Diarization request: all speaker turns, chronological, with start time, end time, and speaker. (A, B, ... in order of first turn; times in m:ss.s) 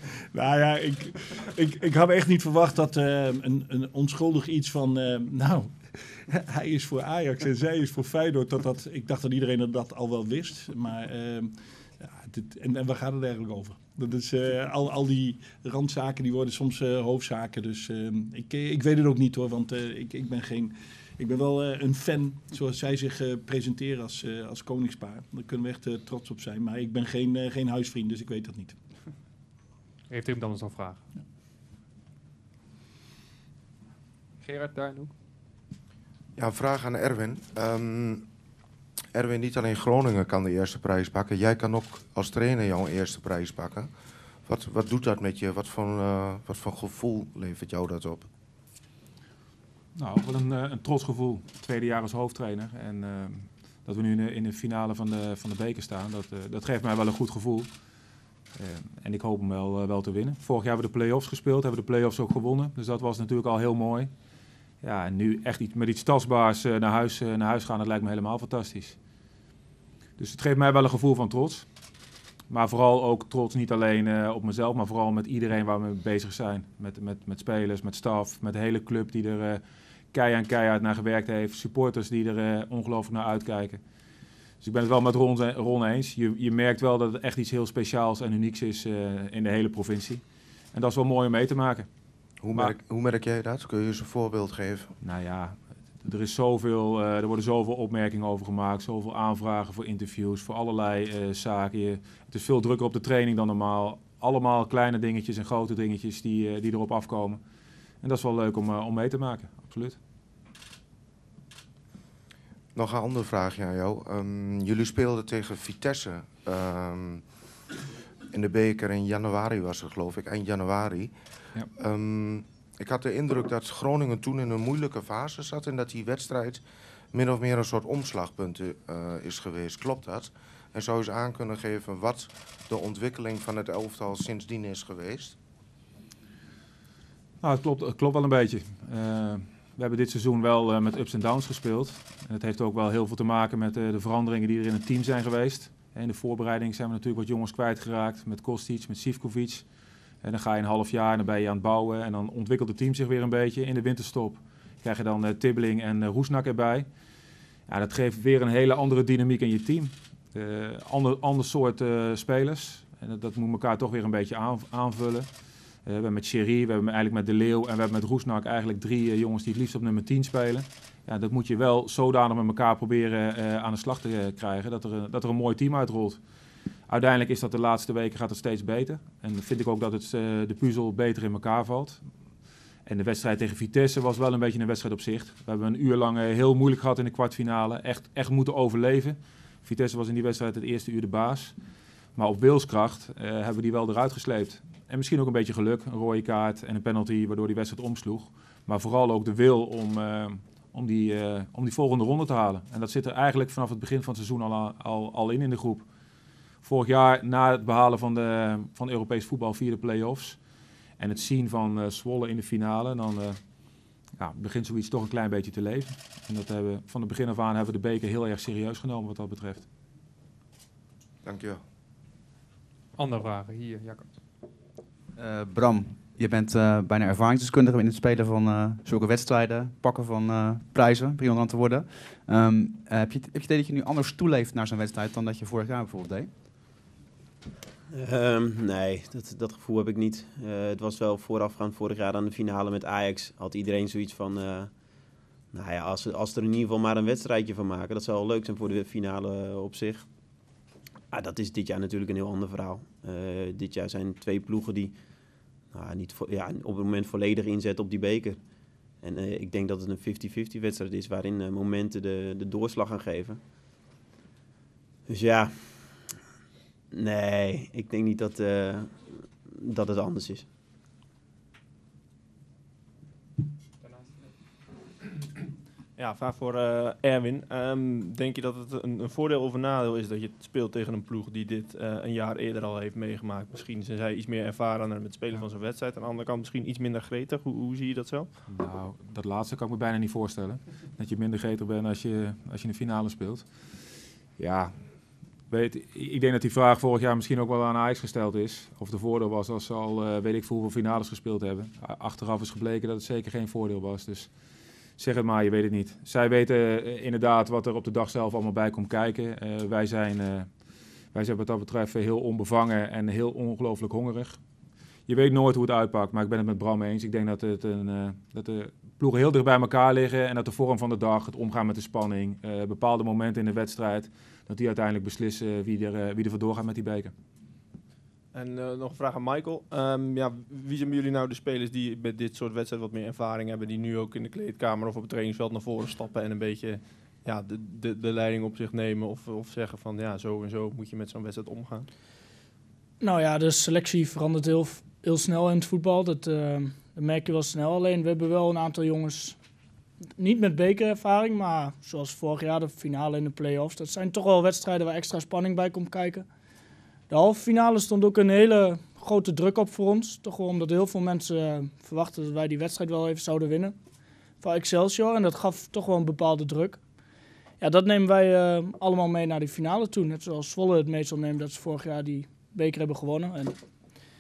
0:00.3-0:28.8 A
0:30.1-0:31.0 B
0:34.4-0:35.1 B
0:36.4-0:38.3 C
0:39.1-0:43.9 C
0:44.4-0:48.3 C
0:50.0-0:57.7 D
0:58.6-1:04.1 D
1:04.8-1:09.0 D
1:10.2-1:11.7 D
1:12.5-1:23.8 D
1:24.6-1:30.2 D
1:30.7-1:31.9 D
1:32.4-1:35.0 C
1:35.0-1:47.4 D
1:48.0-1:50.0 D
1:52.7-1:57.3 C
1:58.3-2:01.1 C
2:01.8-2:15.4 C
2:17.4-2:29.7 D
2:30.2-2:36.9 D
2:37.7-2:45.3 D
2:45.9-2:56.2 D
2:56.9-3:02.0 D
3:02.9-3:11.5 D
3:12.2-3:25.8 D
3:26.6-3:30.4 D
3:31.0-3:33.4 D
3:34.2-3:39.7 D
3:41.2-3:41.6 C
3:43.0-3:44.0 B
3:45.2-3:56.3 E
3:57.9-4:04.7 F
4:05.5-4:10.1 F
4:11.1-4:15.0 F
4:15.7-4:18.4 F
4:19.0-4:23.4 F
4:25.1-4:26.0 F
4:26.9-4:30.4 F
4:36.0-4:48.4 G
4:48.5-4:53.4 D
4:54.4-4:54.7 D
4:55.5-5:04.3 D
5:05.0-5:10.5 D
5:11.1-5:14.4 D
5:15.1-5:27.1 D
5:28.3-5:41.9 G
5:43.0-5:49.4 H
5:50.2-5:56.2 H
5:57.1-6:03.8 H
6:04.4-6:06.8 H
6:07.6-6:13.6 H